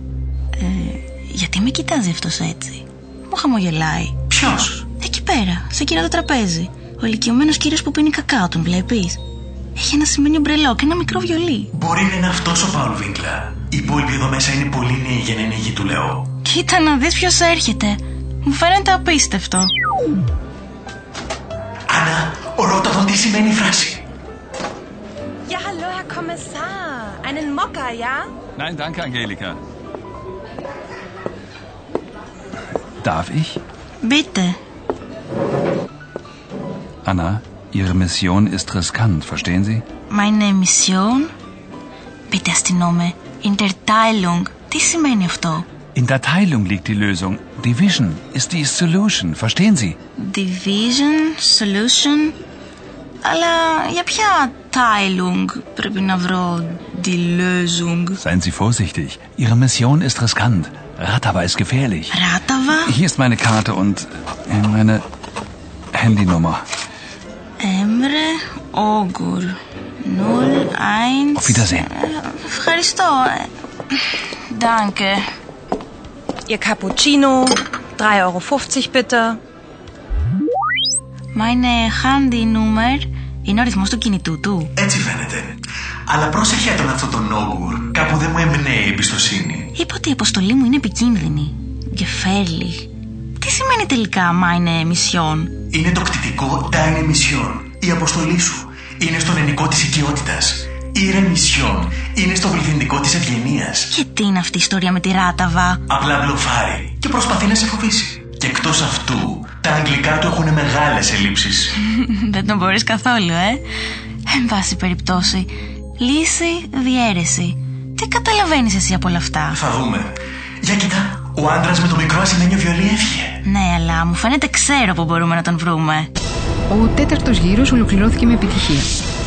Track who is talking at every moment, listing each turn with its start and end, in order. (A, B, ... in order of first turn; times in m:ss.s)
0:00.6-0:04.2 A
0:04.3-0:04.8 B
0:05.0-0:09.2 A
0:09.8-0:11.7 A
0:11.7-0:16.2 B
0:16.4-0:19.7 A
0:21.9-0:24.0 B
0:25.5-0:28.2 C
0:28.6-0:29.6 D
0:33.0-0:33.6 D
0:34.0-0:34.6 A
0:37.0-0:39.8 D
0:40.1-0:41.3 A
0:42.3-0:45.7 A
0:46.0-0:50.0 D
0:50.2-0:52.4 A
0:53.2-0:58.2 A
0:58.2-1:02.1 D
1:02.1-1:02.9 A
1:02.9-1:05.0 D
1:05.9-1:06.6 D
1:07.6-1:14.0 A
1:11.4-1:11.9 D
1:14.5-1:15.2 A
1:16.5-1:19.4 C
1:21.3-1:24.7 A
1:24.8-1:29.7 B
1:29.8-1:35.5 A
1:35.7-1:43.9 B
1:43.9-1:45.8 A
1:45.9-1:51.7 B
1:51.8-1:53.6 A
1:54.3-1:59.6 A
1:59.5-2:00.1 B
2:00.6-2:03.4 B
2:03.4-2:06.1 A
2:06.7-2:08.9 E